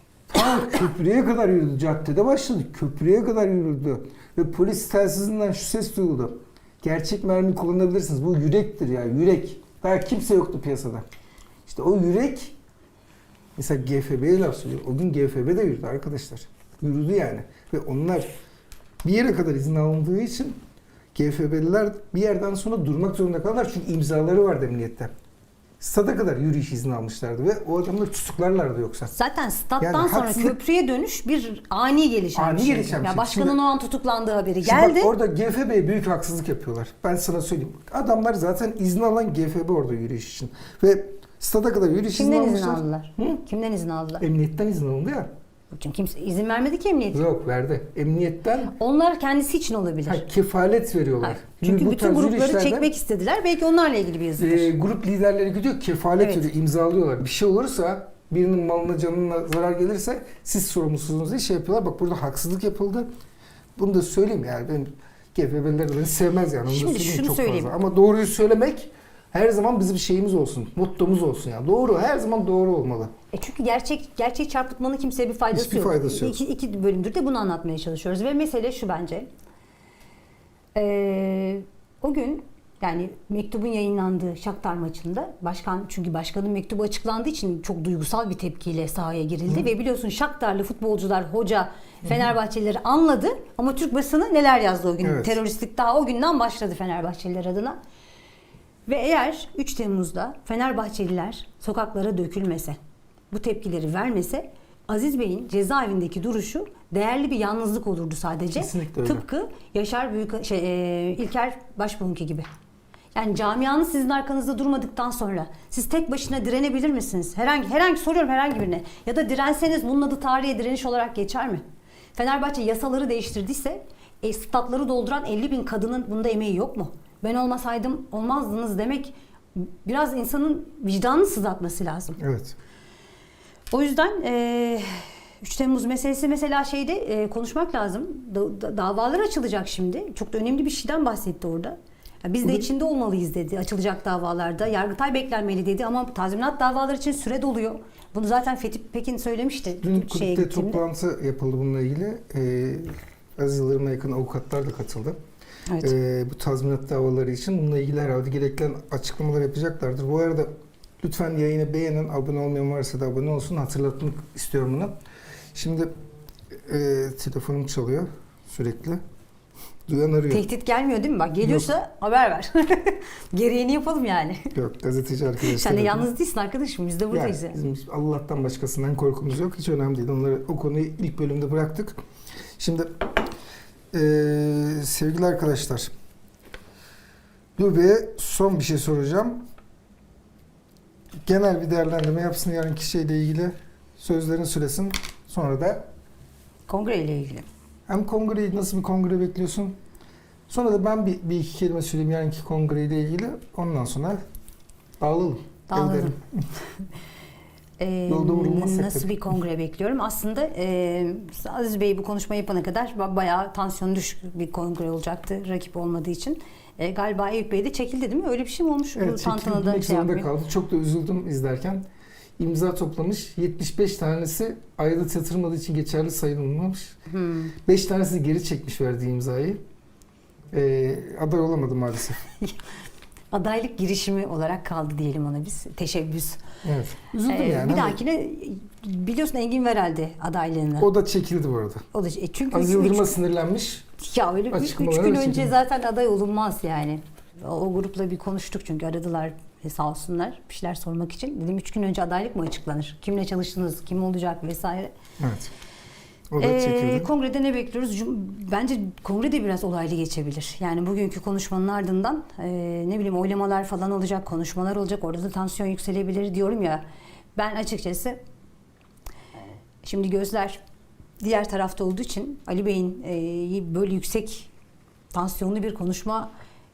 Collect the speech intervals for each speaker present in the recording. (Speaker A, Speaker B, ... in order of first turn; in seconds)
Speaker A: 0.3-11.1, 11.7-12.6, 13.6-18.3, 19.0-20.6, 21.1-25.1, 25.8-29.1, 29.8-30.6, 32.4-33.6, 34.6-43.4, 44.2-45.3, 47.1-48.8, 50.1-52.9, 54.4-63.1, 63.8-73.1, 75.5-76.4, 95.0-95.4, 108.6-109.2, 132.2-132.6, 149.8-155.2, 155.8-160.5, 161.0-164.9, 165.5-165.9, 166.5-169.0, 169.9-170.4, 171.4-171.7, 174.6-176.1, 177.1-182.0, 182.6-183.0, 183.9-185.9, 187.6-189.4, 191.2-195.9, 197.9-199.8, 200.5-204.2, 205.0-206.4, 208.1-209.3, 219.0-221.8, 222.4-226.9, 227.7-229.6, 230.5-232.2, 236.6-238.0, 240.8-241.9, 242.5-243.9, 244.5-245.5, 255.2-255.5, 256.3-257.1
Speaker B: 29.1-35.1, 42.1-44.2, 45.7-47.2, 48.8-50.2, 51.2-54.7, 56.2-56.5, 66.7-67.7, 73.3-79.3, 80.8-97.8, 98.9-102.8, 103.3-112.5, 113.2-121.6, 122.2-132.2, 133.7-150.8, 155.7-155.9, 170.3-174.5, 175.4-177.6, 196.7-197.5, 205.7-206.2, 207.8-220.3, 227.1-227.6, 233.3-236.4, 237.3-240.9, 241.9-243.2, 244.0-254.9, 256.4-266.8, 267.4-268.2, 269.8-270.6, 271.2-274.5, 275.1-276.3